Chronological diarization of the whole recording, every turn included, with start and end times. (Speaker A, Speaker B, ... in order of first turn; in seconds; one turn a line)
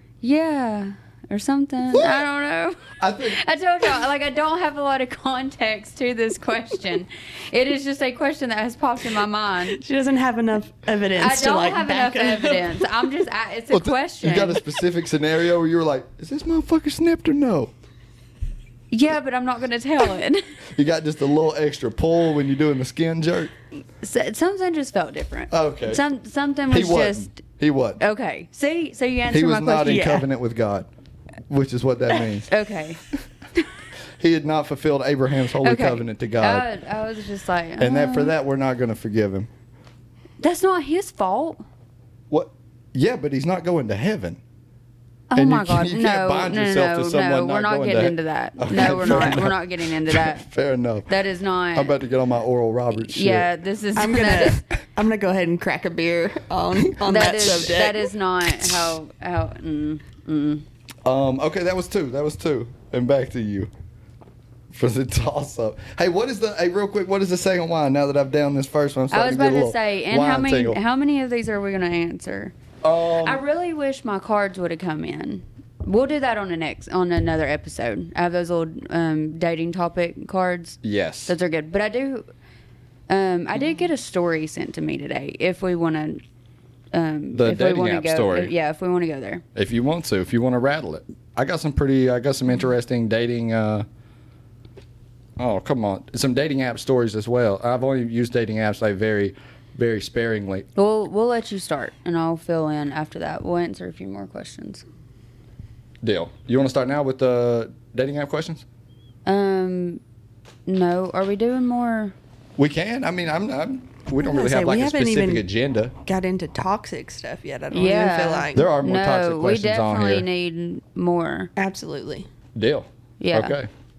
Speaker A: 0.2-9.8
Speaker B: 1.9-2.2
Speaker B: 2.9-3.4
Speaker C: 9.7-12.9
Speaker A: 11.2-14.6
Speaker B: 13.7-17.7
Speaker A: 18.9-20.4
Speaker B: 20.7-23.5
Speaker A: 24.0-27.4
Speaker B: 25.5-26.0
Speaker B: 26.7-28.0
Speaker A: 28.0-30.2
Speaker B: 29.3-30.9
Speaker C: 29.8-30.2
Speaker B: 31.5-32.5
Speaker A: 32.5-33.0
Speaker B: 34.2-36.6
Speaker A: 35.6-38.3
Speaker B: 37.8-39.5
Speaker A: 40.4-41.6
Speaker B: 42.3-44.4
Speaker A: 45.3-50.5
Speaker B: 45.3-51.1
Speaker A: 51.1-51.9
Speaker B: 51.7-53.5
Speaker A: 52.9-54.6
Speaker C: 54.0-58.8
Speaker A: 57.0-60.6
Speaker B: 61.0-63.7
Speaker B: 64.7-70.8
Speaker A: 69.1-72.5
Speaker B: 72.8-73.4
Speaker A: 73.2-82.2
Speaker B: 80.8-81.3
Speaker A: 83.1-86.2
Speaker A: 86.9-89.4
Speaker B: 87.3-88.5
Speaker B: 89.5-93.8
Speaker B: 95.4-100.7
Speaker A: 100.8-104.8
Speaker B: 106.0-108.6
Speaker A: 109.2-110.0
Speaker A: 110.7-112.1
Speaker B: 112.6-115.9
Speaker C: 114.2-115.4
Speaker C: 116.0-118.7
Speaker A: 117.7-121.5
Speaker B: 118.5-120.2
Speaker C: 121.5-122.3
Speaker B: 122.5-123.7
Speaker A: 123.2-123.6